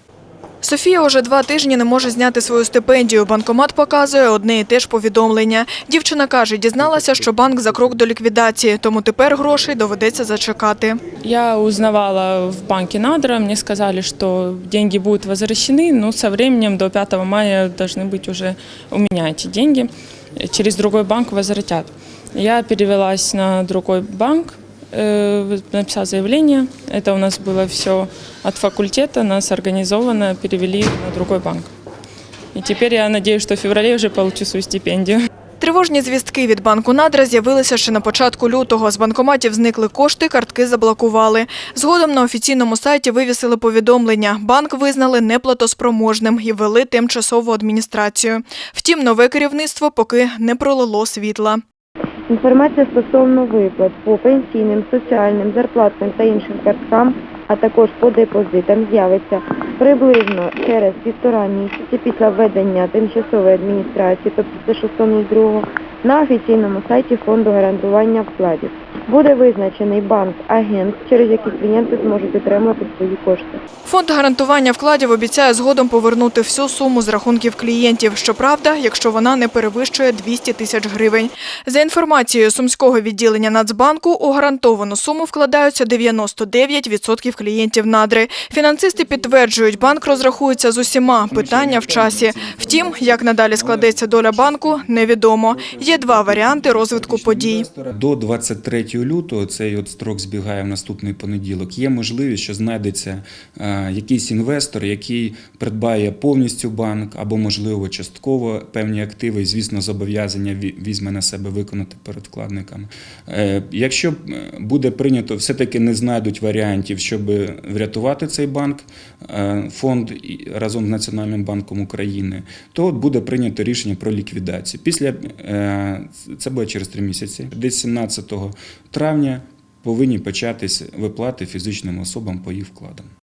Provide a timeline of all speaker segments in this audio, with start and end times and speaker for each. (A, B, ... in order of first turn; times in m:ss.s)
0:00.6-0:11.0 A
0:06.8-0:07.9 B
0:11.2-0:31.7 C
0:32.6-0:35.2 C
0:35.6-0:51.6 A
0:52.3-1:13.6 D
1:13.8-1:37.7 A
1:31.3-1:35.0 B
1:35.5-2:13.1 B